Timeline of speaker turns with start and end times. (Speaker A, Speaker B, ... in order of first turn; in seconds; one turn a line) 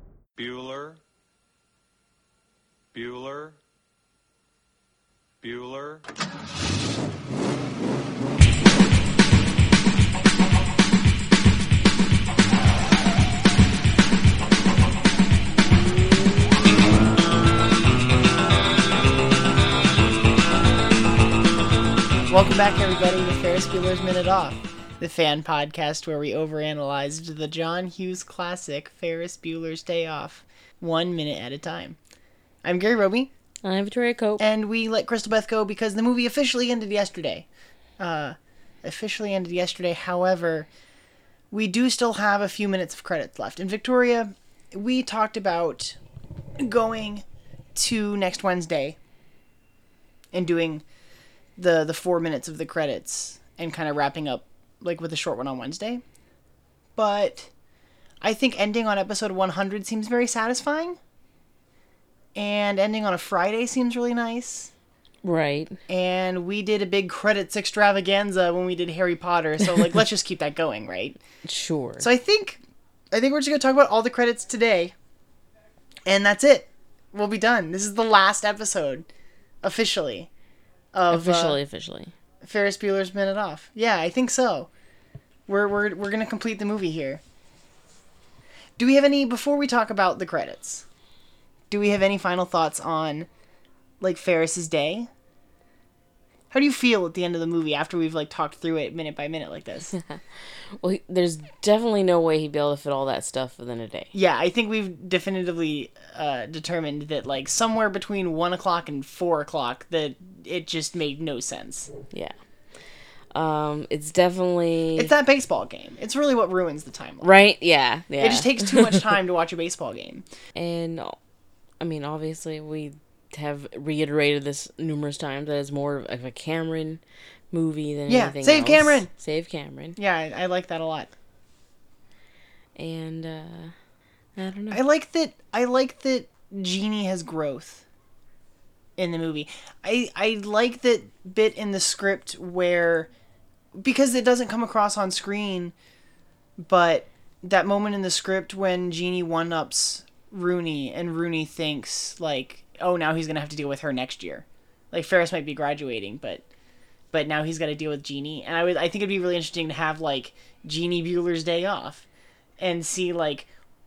Speaker A: 0.4-1.0
Speaker A: 2.9-3.6
Speaker A: 5.4-6.0
Speaker B: 22.3-32.0
Speaker B: 32.6-33.3
Speaker C: 33.6-34.4
Speaker B: 34.4-37.5
Speaker B: 38.0-40.7
Speaker B: 41.5-46.0
Speaker B: 46.6-49.0
Speaker B: 50.3-50.8
Speaker B: 51.6-56.0
Speaker B: 57.0-57.5
Speaker B: 58.2-61.0
Speaker B: 62.3-64.7
Speaker C: 65.2-65.8
Speaker B: 65.9-71.2
Speaker C: 71.4-72.1
Speaker B: 72.0-72.6
Speaker B: 73.1-74.9
Speaker B: 76.0-79.1
Speaker B: 79.6-80.3
Speaker B: 80.9-81.6
Speaker C: 81.1-82.1
Speaker B: 82.4-84.7
Speaker B: 85.5-87.2
Speaker B: 88.8-90.8
Speaker B: 91.7-93.3
Speaker B: 94.0-95.1
Speaker B: 96.5-99.9
Speaker C: 99.9-100.2
Speaker C: 100.8-104.1
Speaker B: 104.1-111.9
Speaker C: 113.3-115.1
Speaker B: 115.0-117.4
Speaker C: 117.2-119.0
Speaker B: 118.2-120.2
Speaker C: 120.5-121.2
Speaker C: 121.8-127.0
Speaker C: 127.5-130.0
Speaker B: 128.1-129.1
Speaker B: 130.0-131.1
Speaker C: 132.8-133.7
Speaker C: 134.3-134.8
Speaker B: 134.7-137.8
Speaker B: 139.0-143.1
Speaker B: 143.8-145.7
Speaker B: 146.6-156.4
Speaker B: 157.1-162.1
Speaker B: 162.6-163.5